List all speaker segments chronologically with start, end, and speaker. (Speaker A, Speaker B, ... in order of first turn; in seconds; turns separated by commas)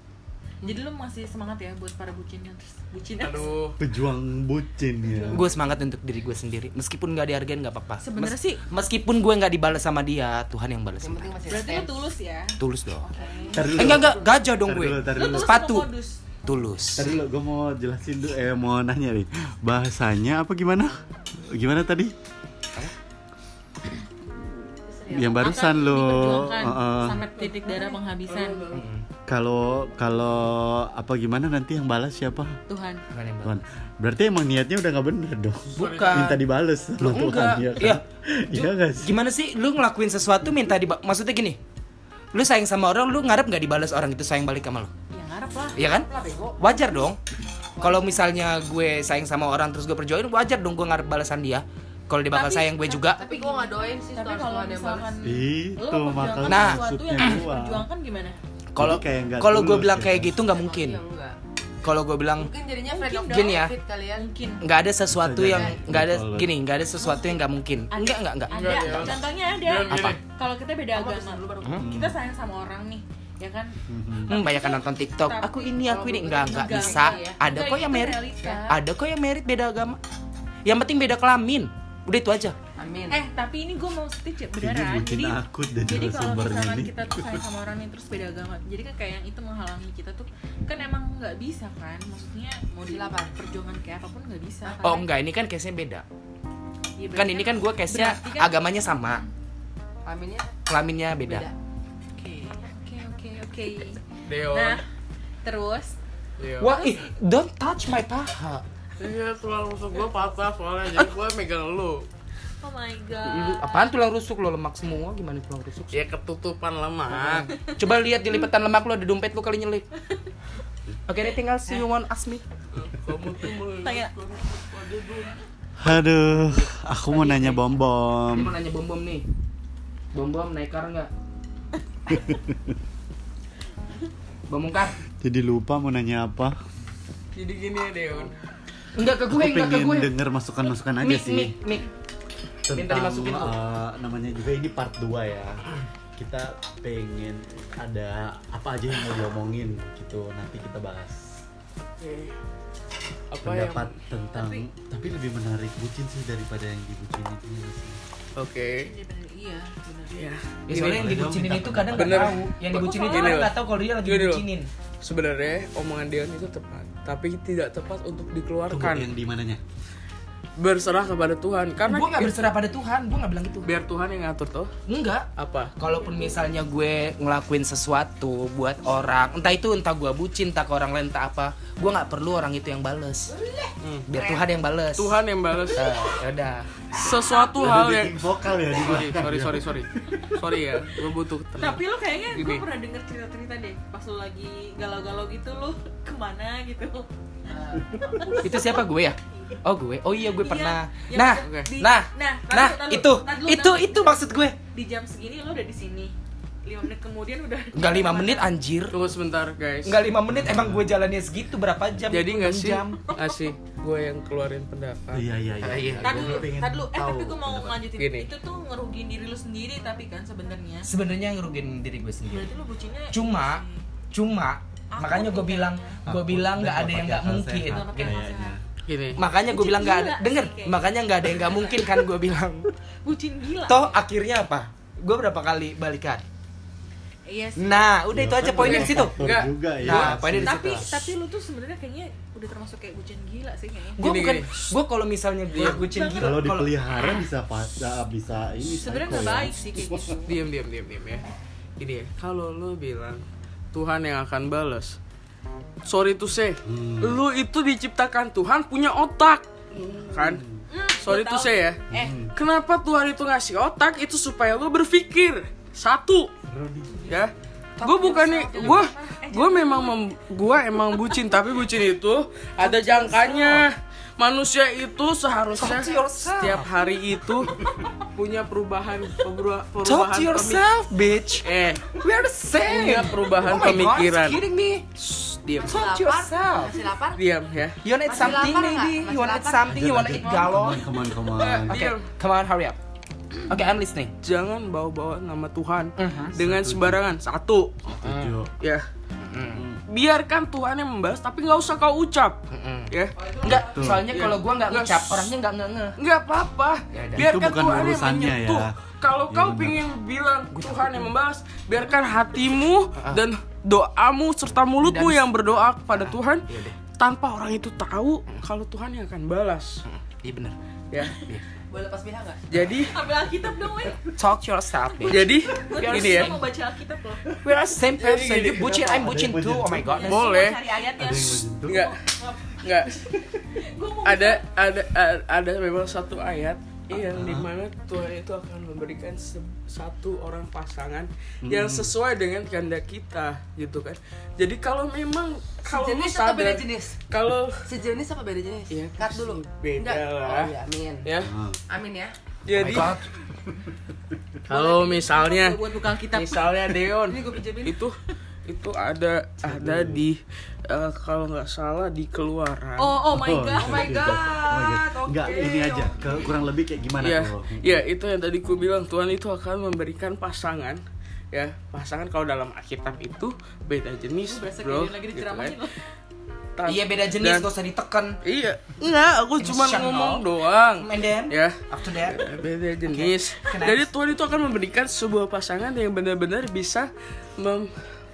Speaker A: 0.6-3.6, Speaker B: 3.2-3.8, Speaker C: 3.8-5.5, Speaker D: 5.3-11.3, Speaker A: 8.0-8.6, Speaker E: 11.0-11.9, Speaker A: 11.5-13.8, Speaker D: 12.6-13.0, Speaker E: 13.1-13.8, Speaker C: 13.5-15.5, Speaker D: 13.7-15.9, Speaker A: 15.1-16.2, Speaker D: 16.4-17.1, Speaker C: 16.9-22.1, Speaker E: 24.9-25.7, Speaker C: 25.1-27.2, Speaker A: 25.2-28.7, Speaker B: 27.2-28.9, Speaker D: 28.7-29.0, Speaker C: 29.3-32.6, Speaker A: 32.7-33.0, Speaker D: 33.1-33.6, Speaker C: 33.4-39.1, Speaker B: 35.7-36.4, Speaker D: 35.8-36.4, Speaker D: 37.0-41.6, Speaker D: 42.3-44.9, Speaker A: 45.1-45.8, Speaker D: 45.8-47.2, Speaker E: 45.9-46.9, Speaker E: 47.8-48.4, Speaker D: 47.8-53.2, Speaker A: 52.3-58.4, Speaker E: 53.1-55.1, Speaker C: 55.2-57.9, Speaker D: 56.4-57.4, Speaker D: 58.7-61.0, Speaker C: 58.8-60.4, Speaker E: 60.4-61.4, Speaker D: 61.8-62.5, Speaker E: 62.4-64.3, Speaker A: 62.9-63.6, Speaker D: 63.2-63.7, Speaker A: 64.1-64.6, Speaker D: 64.6-69.2, Speaker C: 65.1-66.5, Speaker A: 67.0-78.8, Speaker B: 68.5-70.2, Speaker D: 69.9-70.2, Speaker E: 70.9-71.8, Speaker C: 71.8-72.1, Speaker C: 73.9-74.3, Speaker D: 74.3-80.0, Speaker E: 75.8-77.4, Speaker D: 80.6-82.5, Speaker E: 82.8-83.3, Speaker A: 83.1-95.1, Speaker C: 84.5-87.4, Speaker E: 92.9-93.4, Speaker E: 94.6-95.0, Speaker D: 94.8-96.0, Speaker A: 97.0-98.6, Speaker D: 97.1-99.2, Speaker E: 100.0-100.5, Speaker D: 100.7-101.5, Speaker E: 101.2-101.5, Speaker A: 102.2-104.8, Speaker B: 104.2-104.8, Speaker A: 105.4-106.0, Speaker B: 106.4-106.8, Speaker D: 106.6-108.6, Speaker B: 109.0-112.1, Speaker A: 112.6-113.9, Speaker D: 113.2-116.0, Speaker B: 115.9-117.5, Speaker D: 117.1-119.9, Speaker D: 121.1-122.4, Speaker B: 122.7-125.3, Speaker A: 123.8-124.1, Speaker C: 125.8-128.6, Speaker D: 128.3-129.2, Speaker D: 130.1-131.1, Speaker C: 132.1-132.7, Speaker D: 134.5-135.0, Speaker C: 135.2-136.6, Speaker B: 137.3-138.3, Speaker D: 138.9-140.1, Speaker C: 139.3-141.6, Speaker D: 141.0-141.9, Speaker C: 142.7-145.6, Speaker D: 142.7-143.5, Speaker C: 146.2-151.4, Speaker B: 151.9-152.3, Speaker B: 153.3-153.9, Speaker C: 153.4-158.0, Speaker A: 154.3-154.7, Speaker B: 158.3-158.9, Speaker A: 158.7-160.3, Speaker B: 160.1-161.1, Speaker D: 160.7-164.7, Speaker C: 160.7-162.4, Speaker B: 161.9-164.4, Speaker A: 162.7-163.4, Speaker B: 165.0-169.1, Speaker C: 168.7-169.6, Speaker B: 170.6-172.5, Speaker D: 171.8-173.7, Speaker B: 173.6-174.7, Speaker D: 174.9-183.3, Speaker B: 175.3-175.8, Speaker E: 183.3-184.4, Speaker B: 183.8-184.1, Speaker D: 184.1-185.2, Speaker B: 184.9-185.9, Speaker D: 185.7-186.7, Speaker B: 186.9-191.8, Speaker A: 187.0-187.8, Speaker C: 187.6-190.3, Speaker A: 191.6-197.1, Speaker B: 192.3-192.6, Speaker E: 197.5-198.4, Speaker C: 197.9-198.4, Speaker A: 198.0-198.6, Speaker D: 198.4-204.6, Speaker A: 200.3-206.1, Speaker B: 201.4-201.7, Speaker A: 206.6-208.5, Speaker D: 207.7-209.0, Speaker B: 208.9-210.0, Speaker D: 209.8-213.0, Speaker C: 210.3-210.9, Speaker B: 212.1-215.3, Speaker A: 213.1-213.5, Speaker C: 215.1-217.8, Speaker D: 215.6-216.4, Speaker A: 216.0-220.9, Speaker B: 217.9-218.3, Speaker D: 220.8-222.5, Speaker A: 222.3-223.8, Speaker D: 223.1-228.1, Speaker A: 224.9-226.0, Speaker C: 226.1-228.6, Speaker A: 227.7-228.6, Speaker B: 228.9-229.2, Speaker D: 229.2-232.7, Speaker A: 229.5-231.8, Speaker A: 233.0-233.9, Speaker D: 233.6-236.2, Speaker A: 237.3-237.8, Speaker D: 237.6-239.2, Speaker C: 238.1-240.6, Speaker B: 238.6-240.2, Speaker D: 239.8-241.0, Speaker A: 240.3-244.0, Speaker B: 244.0-244.7, Speaker D: 244.0-246.7, Speaker B: 245.5-245.9, Speaker A: 245.7-246.4, Speaker C: 246.2-250.2, Speaker A: 247.0-247.2, Speaker A: 248.6-250.3, Speaker B: 250.2-251.2, Speaker B: 251.8-255.0, Speaker B: 255.8-260.4, Speaker C: 256.6-257.2, Speaker C: 259.9-260.5, Speaker A: 260.7-262.1, Speaker B: 261.0-266.3, Speaker C: 261.9-262.3, Speaker C: 266.5-267.1, Speaker B: 267.1-277.6, Speaker A: 267.8-270.1, Speaker D: 272.6-273.6, Speaker D: 275.6-276.7, Speaker B: 278.1-280.7, Speaker D: 279.8-286.7, Speaker B: 281.4-282.0, Speaker B: 282.6-284.4, Speaker B: 285.1-285.8, Speaker E: 285.6-287.2, Speaker B: 287.1-287.8, Speaker D: 287.8-290.9, Speaker E: 288.0-290.5, Speaker C: 289.7-291.8, Speaker B: 291.3-292.0, Speaker D: 291.7-292.8, Speaker D: 293.5-294.1, Speaker B: 294.2-297.8, Speaker D: 296.0-296.3, Speaker C: 296.4-297.0, Speaker C: 297.9-298.5, Speaker D: 298.0-298.4, Speaker B: 298.6-298.9, Speaker D: 299.2-299.6, Speaker B: 299.9-303.3, Speaker D: 302.5-305.9, Speaker E: 303.4-304.0, Speaker C: 303.4-304.1, Speaker B: 303.9-305.3, Speaker B: 306.0-319.8, Speaker D: 306.9-307.4, Speaker C: 307.1-308.7, Speaker C: 309.3-309.8, Speaker D: 310.5-311.1, Speaker D: 313.0-313.2, Speaker D: 314.8-315.3, Speaker D: 315.9-316.8, Speaker D: 319.9-320.6, Speaker B: 320.9-321.2, Speaker D: 321.1-321.4, Speaker E: 321.7-322.5, Speaker B: 322.5-323.0, Speaker A: 322.7-324.1, Speaker D: 324.1-326.4, Speaker A: 324.9-327.3, Speaker B: 325.1-326.4, Speaker D: 327.4-330.3, Speaker B: 327.8-329.1, Speaker C: 329.0-329.9, Speaker A: 329.8-334.5, Speaker B: 330.1-330.6, Speaker C: 331.0-331.9, Speaker B: 331.7-331.9, Speaker B: 332.6-333.0, Speaker B: 334.0-347.7, Speaker C: 336.9-337.5, Speaker C: 341.4-341.9, Speaker E: 345.7-347.0, Speaker E: 347.6-351.1, Speaker B: 348.7-350.5, Speaker B: 351.0-351.3, Speaker C: 351.2-351.6, Speaker E: 351.7-352.1, Speaker B: 352.4-352.9, Speaker D: 352.5-353.0, Speaker B: 354.5-363.0, Speaker A: 354.5-356.5, Speaker E: 357.1-357.8, Speaker C: 359.4-360.0, Speaker A: 362.8-364.1, Speaker C: 363.1-367.8, Speaker E: 363.6-366.4, Speaker B: 367.0-370.8, Speaker B: 371.3-375.6, Speaker A: 374.2-375.8, Speaker B: 376.6-377.5, Speaker D: 376.6-378.2, Speaker B: 378.2-387.7, Speaker D: 379.4-382.2, Speaker D: 382.9-383.9